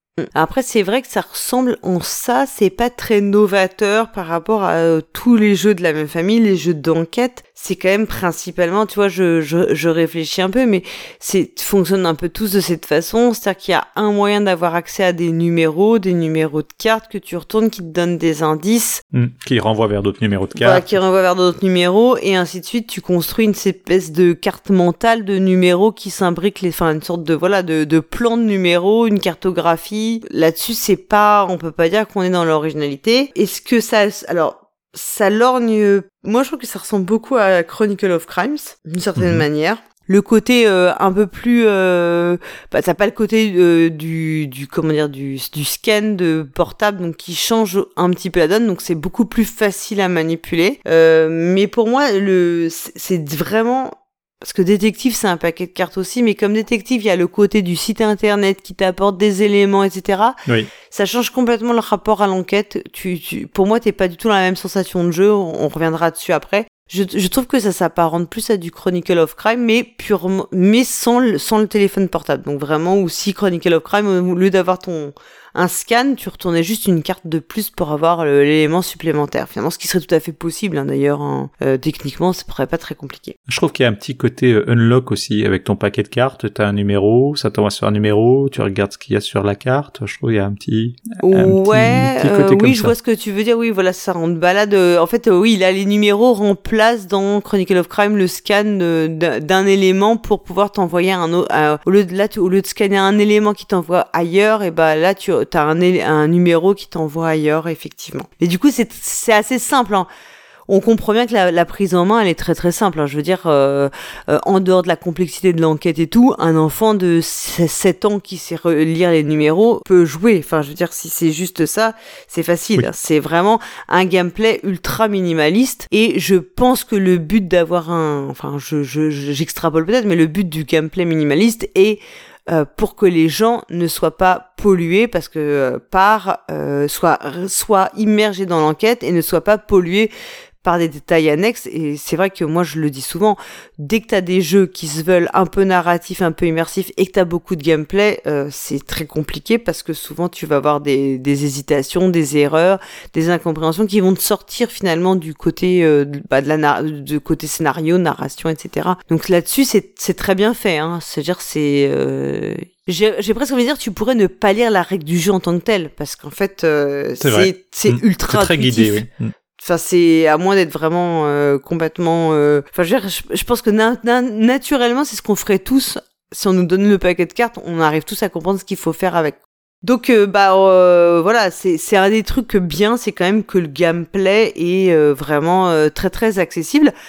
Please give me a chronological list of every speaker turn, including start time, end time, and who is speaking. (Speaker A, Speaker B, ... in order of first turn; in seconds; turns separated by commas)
Speaker A: 0.2-19.0, Speaker B: 19.1-20.9, Speaker A: 20.6-60.4, Speaker B: 39.2-39.4, Speaker B: 60.5-60.7, Speaker A: 60.9-83.3, Speaker B: 83.5-92.9, Speaker A: 91.2-110.1, Speaker A: 110.7-140.1, Speaker A: 140.6-186.9, Speaker B: 167.2-169.3